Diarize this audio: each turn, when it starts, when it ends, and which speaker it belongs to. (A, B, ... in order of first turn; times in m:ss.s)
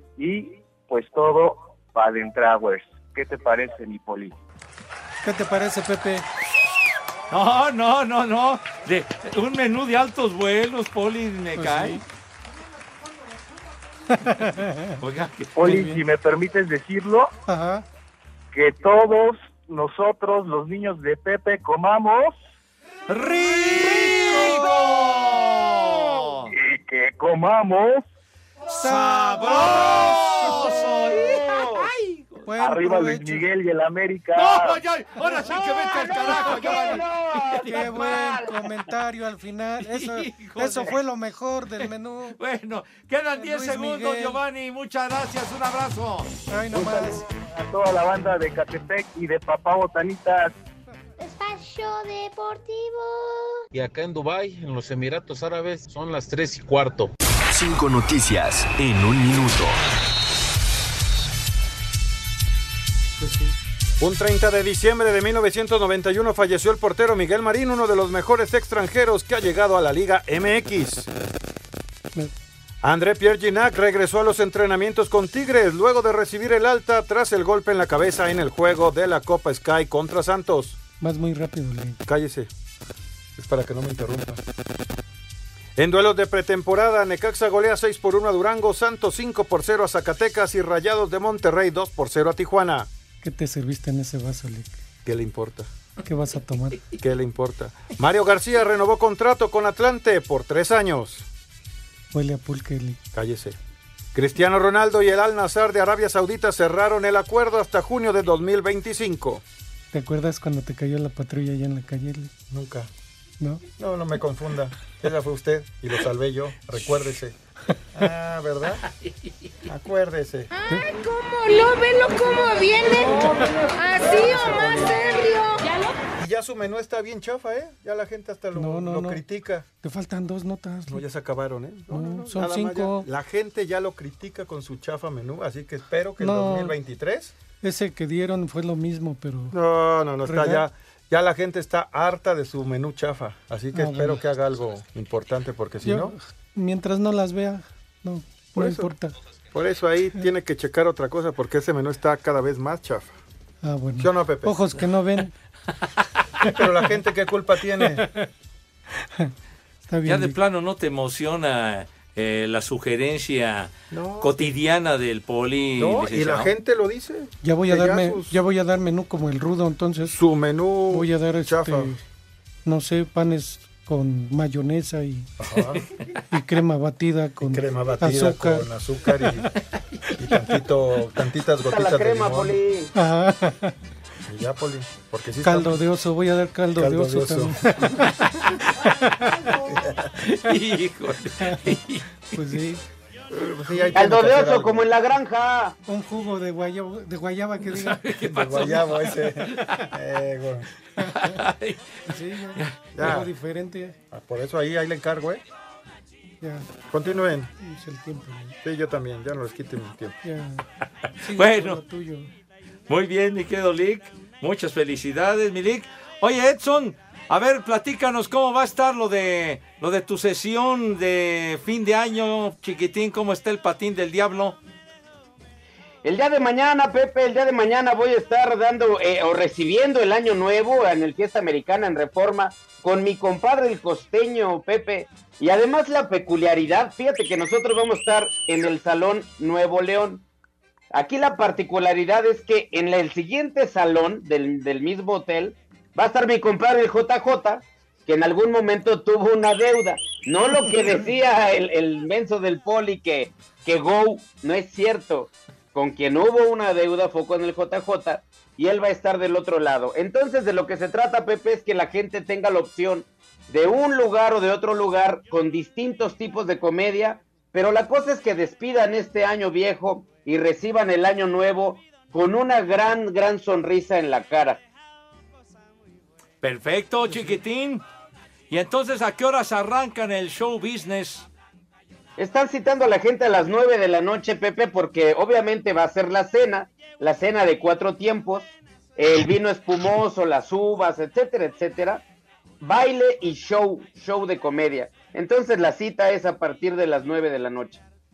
0:00.2-0:04.3 A
0:05.2-0:06.2 B
0:07.3-0:12.0 C
0:11.6-0:12.0 B
0:14.2-0:15.0 B
0:15.0-0:15.6 C
0:15.6-0:17.3 A
0:15.6-0:16.0 B
0:17.5-0:17.8 B
0:18.5-0:22.3 A
0:23.1-0:26.5 C
0:23.8-0:24.5 B
0:26.5-0:28.0 A
0:28.7-0:32.5 C
0:28.8-0:30.7 B
0:30.4-0:31.9 D
0:32.4-0:33.4 B
0:32.6-0:34.8 A
0:34.4-0:37.0 C
0:35.5-0:38.6 D
0:36.5-0:36.8 B
0:37.6-0:42.4 B
0:39.8-0:41.0 C
0:41.8-0:46.3 C
0:43.4-0:44.4 B
0:46.5-0:47.2 B
0:46.7-0:50.5 A
0:51.2-0:53.6 E
0:53.8-0:57.0 F
0:57.5-0:59.8 G
1:04.0-1:11.1 H
1:12.8-1:20.8 H
1:21.0-1:22.0 B
1:22.0-1:22.5 H
1:23.4-1:24.4 H
1:25.8-1:32.9 H
1:33.2-1:34.8 B
1:35.0-1:35.7 H
1:36.0-1:36.8 B
1:37.0-1:41.2 H
1:42.1-1:43.0 B
1:43.1-1:43.6 H
1:44.1-1:49.4 H
1:49.9-1:52.3 B
1:52.5-1:52.9 H
1:53.8-1:57.3 H
1:58.0-1:58.8 H
1:59.7-2:00.5 H
2:00.5-2:03.2 I
2:02.8-2:03.2 H
2:03.8-2:05.9 I
2:03.9-2:05.2 H
2:06.2-2:09.6 H
2:08.6-2:09.2 B
2:09.8-2:11.0 B
2:10.9-2:17.3 H
2:11.9-2:13.1 B
2:16.2-2:16.7 B
2:17.6-2:19.6 B
2:19.5-2:26.1 H
2:20.2-2:20.6 B
2:23.7-2:24.2 B
2:25.8-2:29.1 B
2:28.5-2:28.9 H
2:29.5-2:33.2 H
2:33.6-2:35.3 B
2:34.0-2:34.6 H
2:36.5-2:38.1 H
2:37.9-2:38.2 B
2:39.0-2:39.3 B
2:39.9-2:40.3 B
2:40.0-2:46.5 C
2:43.9-2:44.5 H
2:45.8-2:48.4 H
2:47.4-2:50.2 B
2:50.1-2:52.0 H
2:50.9-2:52.0 B
2:52.6-2:55.3 B
2:55.4-2:55.8 H
2:56.3-2:58.6 B
2:57.4-2:59.5 H
3:00.2-3:02.6 H
3:01.7-3:02.9 D
3:02.9-3:03.7 B
3:04.3-3:05.8 H
3:05.4-3:08.1 B
3:06.8-3:07.8 H
3:09.7-3:10.1 H
3:10.2-3:12.4 C
3:11.4-3:11.7 B
3:12.3-3:12.8 B
3:13.3-3:14.8 H
3:13.9-3:15.8 D
3:15.9-3:18.0 B
3:17.7-3:19.8 C
3:18.2-3:20.7 H
3:21.0-3:21.3 B
3:21.2-3:22.0 C
3:22.1-3:24.0 B
3:22.9-3:23.3 H
3:24.1-3:25.4 H
3:26.4-3:26.7 B
3:26.9-3:27.5 H
3:27.6-3:28.5 B
3:28.6-3:30.2 H
3:30.2-3:30.6 B
3:31.2-3:32.3 B
3:31.3-3:31.8 C
3:32.9-3:44.6 C
3:46.0-4:00.2 D
4:00.9-4:34.6 D
4:36.4-4:37.8 C
4:38.5-4:41.3 C
4:42.2-4:52.0 D
4:52.6-4:57.8 D